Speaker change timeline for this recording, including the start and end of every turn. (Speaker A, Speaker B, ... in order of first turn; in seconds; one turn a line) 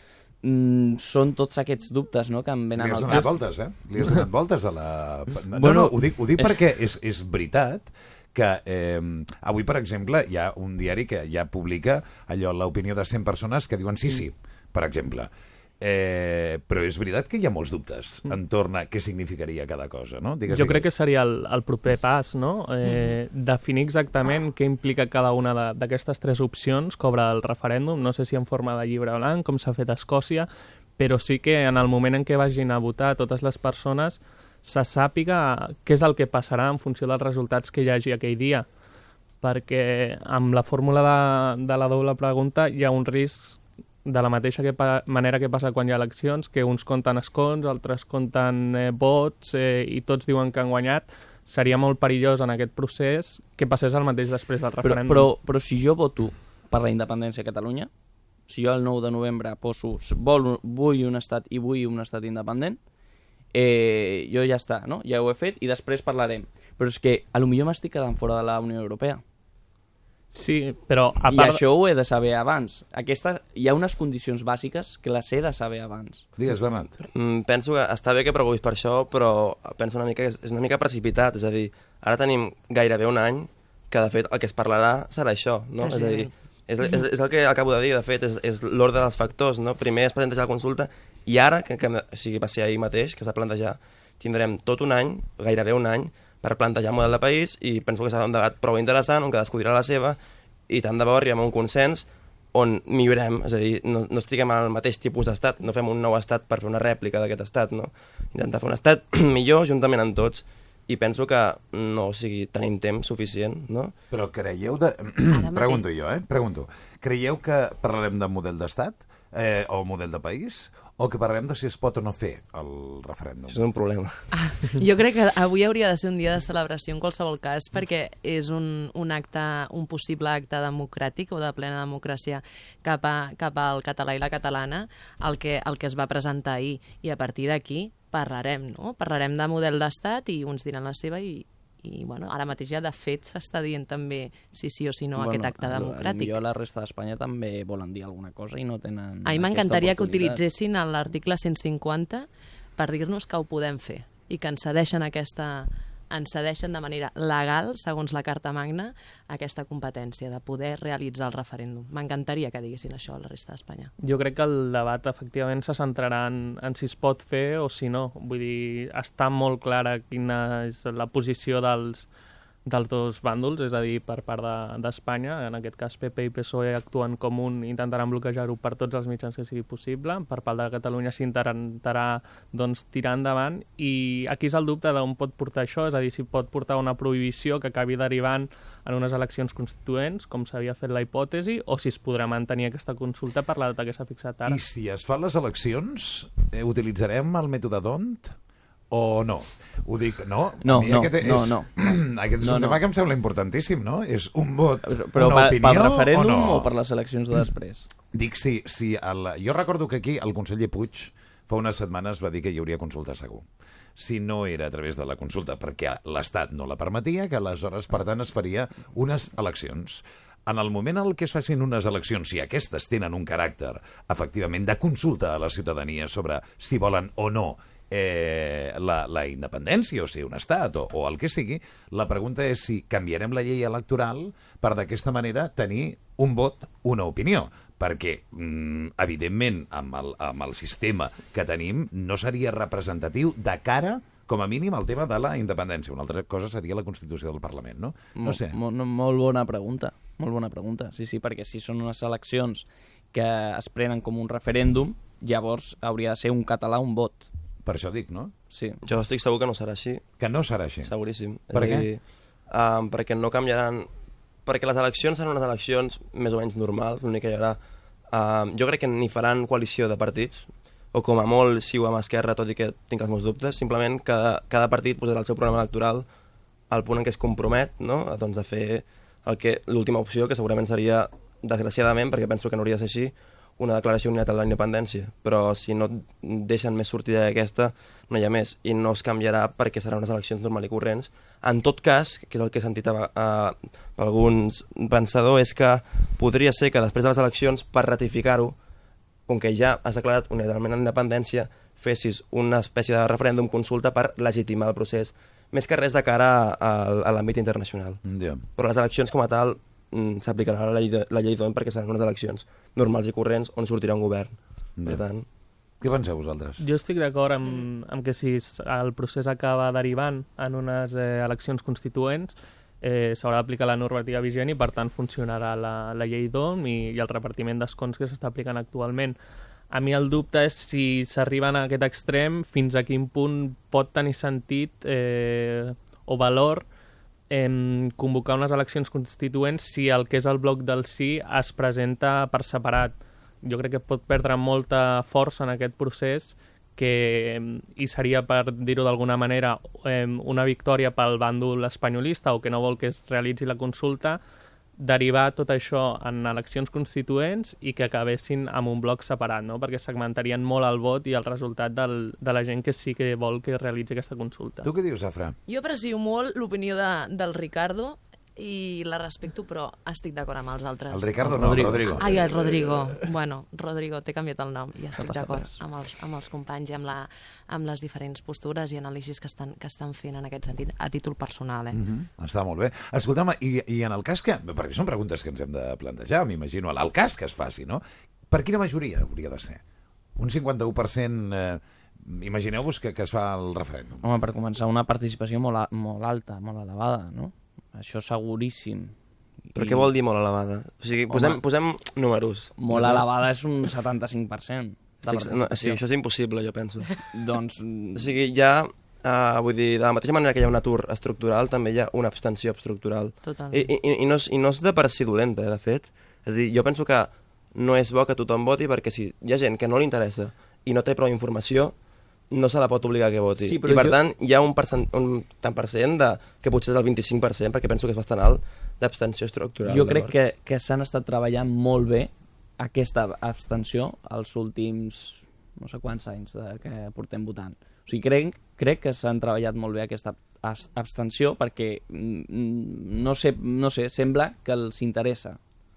Speaker A: 0.4-3.5
Speaker B: 2.8-20.9
Speaker A: 5.5-6.6
Speaker C: 20.5-38.7
Speaker D: 22.8-23.1
Speaker C: 39.4-55.3
Speaker A: 54.8-57.9
Speaker A: 58.5-62.8
Speaker A: 63.5-69.2
Speaker C: 70.3-71.6
Speaker A: 71.3-76.3
Speaker B: 76.4-77.0
Speaker E: 77.1-100.2
Speaker D: 85.8-86.3
Speaker E: 100.7-113.9
Speaker B: 114.1-123.6
Speaker D: 115.3-115.8
Speaker E: 123.5-124.1
Speaker D: 124.3-146.3
Speaker A: 145.2-150.4
Speaker D: 149.2-163.9
Speaker C: 164.0-172.1
Speaker C: 172.7-194.6
Speaker B: 194.4-198.4
Speaker B: 198.9-206.7
Speaker A: 200.6-202.8
Speaker A: 204.8-207.9
Speaker B: 208.1-248.6
Speaker A: 248.2-257.2
Speaker B: 257.6-258.3
Speaker A: 258.5-258.8
Speaker E: 258.9-260.0
Speaker B: 260.2-260.9
Speaker E: 260.8-263.9
Speaker B: 261.5-261.9
Speaker E: 264.5-267.6
Speaker E: 268.1-276.1
Speaker E: 276.7-298.6
Speaker E: 299.3-308.0
Speaker B: 308.0-308.4
Speaker E: 308.6-315.3
Speaker B: 315.8-316.6
Speaker C: 316.6-329.2
Speaker C: 329.7-336.7
Speaker C: 337.3-354.2
Speaker C: 354.8-364.7
Speaker B: 364.6-365.4
Speaker D: 365.5-381.8
Speaker B: 370.9-372.1
Speaker A: 371.3-371.8
Speaker A: 375.1-375.5
Speaker B: 381.7-389.6
Speaker B: 390.2-394.1
Speaker A: 394.0-398.9
Speaker A: 399.6-399.9
Speaker E: 399.6-403.1
Speaker A: 401.1-401.4
Speaker A: 402.6-405.8
Speaker E: 405.0-406.9
Speaker A: 407.1-408.1
Speaker E: 408.0-421.8
Speaker D: 413.2-413.7
Speaker E: 422.3-430.1
Speaker A: 423.4-424.0
Speaker A: 429.7-445.4